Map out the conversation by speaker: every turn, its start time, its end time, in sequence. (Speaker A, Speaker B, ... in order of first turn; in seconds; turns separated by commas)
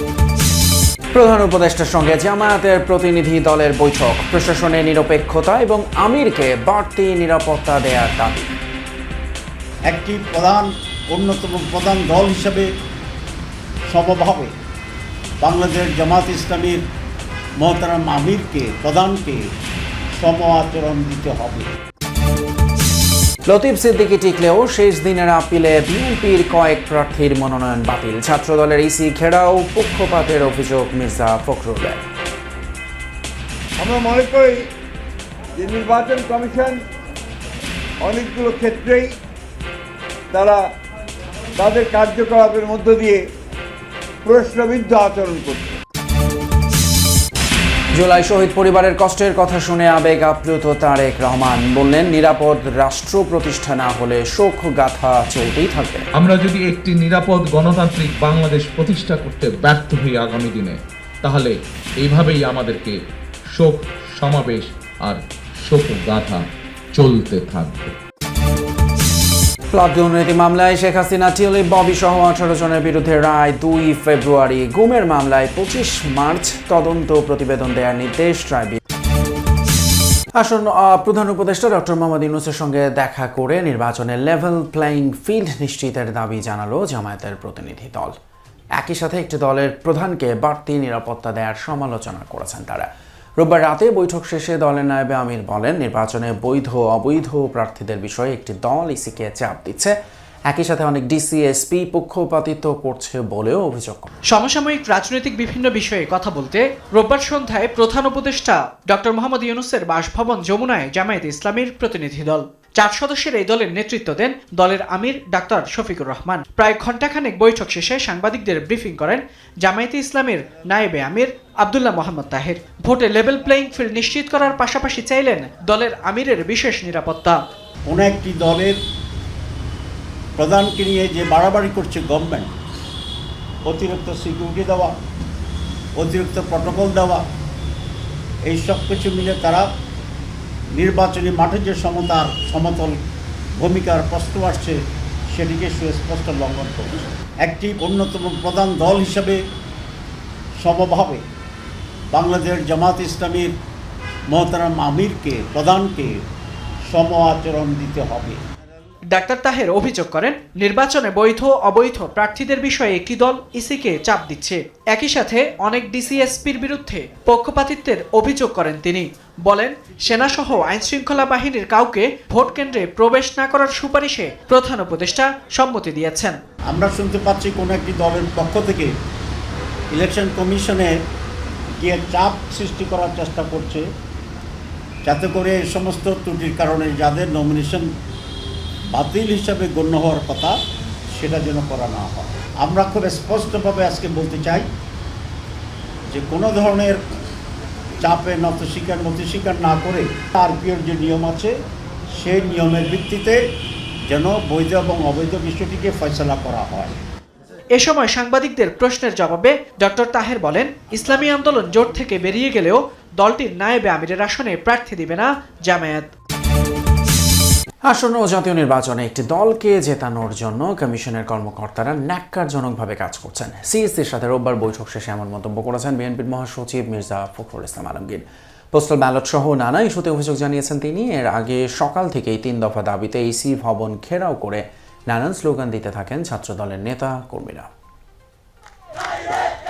Speaker A: 1.1-8.5, Speaker B: 9.9-12.7, Speaker B: 13.9-14.5, Speaker B: 15.4-16.8, Speaker B: 17.6-19.4, Speaker B: 20.2-21.7, Speaker A: 23.4-32.0, Speaker C: 33.8-34.6, Speaker C: 35.5-36.8, Speaker C: 38.0-39.1, Speaker C: 40.3-40.6, Speaker C: 41.5-43.2, Speaker C: 44.2-45.8, Speaker A: 47.9-56.0, Speaker D: 56.2-63.0, Speaker D: 63.5-68.0, Speaker A: 69.7-78.8, Speaker A: 80.3-88.1, Speaker A: 88.8-92.9, Speaker A: 93.4-99.9, Speaker A: 100.5-104.1, Speaker E: 104.3-127.4, Speaker B: 127.9-128.7, Speaker B: 130.4-132.5, Speaker B: 133.7-134.9, Speaker B: 136.0-137.2, Speaker B: 138.5-139.6, Speaker B: 140.8-142.9, Speaker B: 143.6-144.7, Speaker B: 145.3-149.3, Speaker B: 150.6-151.2, Speaker B: 152.1-153.4, Speaker B: 154.3-156.1, Speaker B: 156.9-158.4, Speaker E: 159.1-176.3, Speaker B: 176.7-178.9, Speaker B: 179.9-180.9, Speaker B: 181.8-183.8, Speaker B: 185.1-187.8, Speaker B: 188.9-190.5, Speaker B: 191.2-194.6, Speaker B: 196.1-197.0, Speaker B: 198.0-201.5, Speaker B: 202.2-203.3, Speaker B: 204.1-207.0, Speaker E: 207.7-216.1, Speaker A: 217.8-237.7